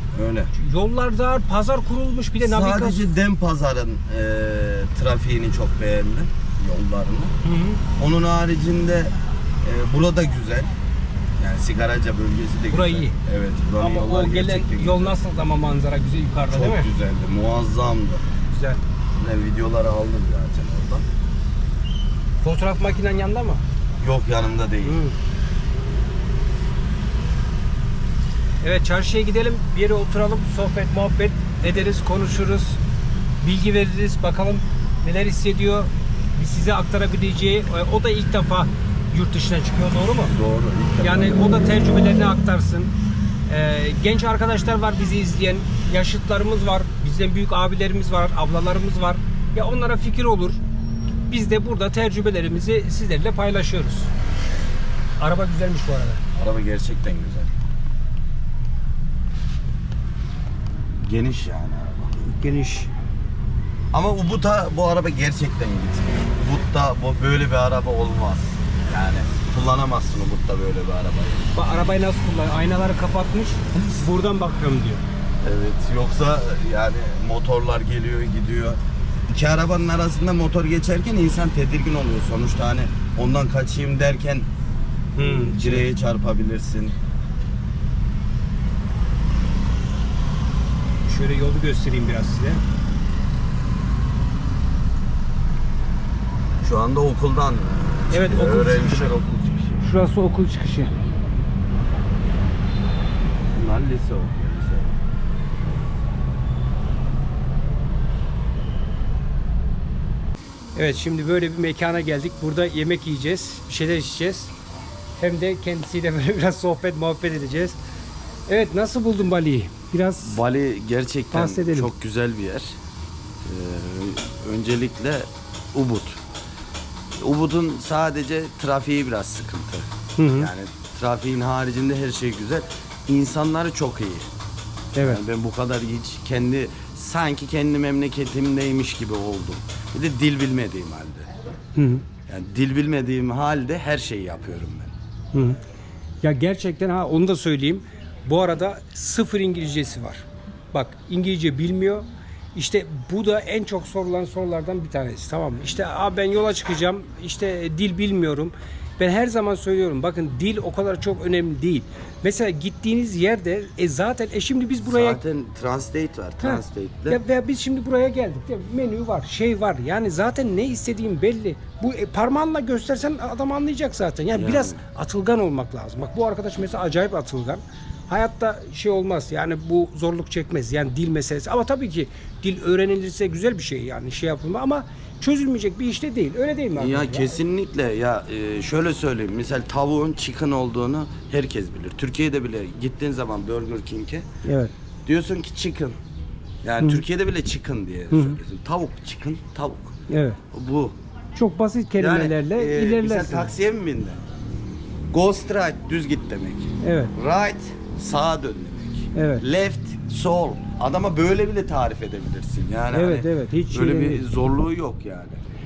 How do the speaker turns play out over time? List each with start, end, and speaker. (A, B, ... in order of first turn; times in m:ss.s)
0:00.1-0:00.5 A
0:00.5-0:03.0 B
0:02.4-0:07.3 A
0:07.4-0:07.8 B
0:08.0-0:10.7 A
0:11.4-0:15.1 A
0:12.7-0:13.2 B
0:13.8-0:16.9 B
0:16.5-0:18.2 A
0:18.5-0:18.8 B
0:19.1-0:21.1 A
0:22.4-0:23.6 B
0:24.0-0:25.0 A
0:24.8-0:25.2 B
0:28.6-0:32.8 B
0:33.4-0:40.4 B
0:40.3-0:41.4 A
0:41.0-0:42.9 B
0:43.5-0:50.6 B
0:51.3-0:54.1 B
0:55.2-0:56.2 B
0:56.4-0:57.5 A
1:01.0-1:02.1 A
1:02.2-1:02.9 B
1:03.9-1:11.5 A
1:11.5-1:15.0 B
1:15.4-1:24.5 A
1:25.2-1:25.8 B
1:25.2-1:27.0 A
1:31.0-1:32.6 B
1:36.6-1:39.8 A
1:38.1-1:39.1 B
1:39.8-1:40.9 B
1:43.5-1:45.0 A
1:50.7-1:54.5 B
1:55.2-1:57.8 B
1:58.5-2:00.4 B
2:00.2-2:02.8 A
2:01.3-2:01.9 B
2:03.4-2:06.2 A
2:07.1-2:14.3 A
2:10.2-2:10.5 B
2:14.9-2:15.2 B
2:15.0-2:21.3 A
2:21.8-2:22.0 B
2:22.3-2:24.9 A
2:25.3-2:25.6 B
2:26.2-2:45.2 B
2:44.8-2:47.2 A
2:46.4-3:07.4 B
2:54.3-2:54.8 A
3:06.8-3:14.3 A
3:14.4-3:14.7 B
3:15.0-3:16.0 A
3:16.6-3:19.9 A
3:18.1-3:18.4 B
3:20.1-3:20.4 B
3:20.5-3:21.0 A
3:21.4-3:23.5 B
3:22.0-3:24.2 A
3:25.1-3:35.4 A
3:26.8-3:27.1 B
3:29.1-3:29.4 B
3:32.9-3:34.2 B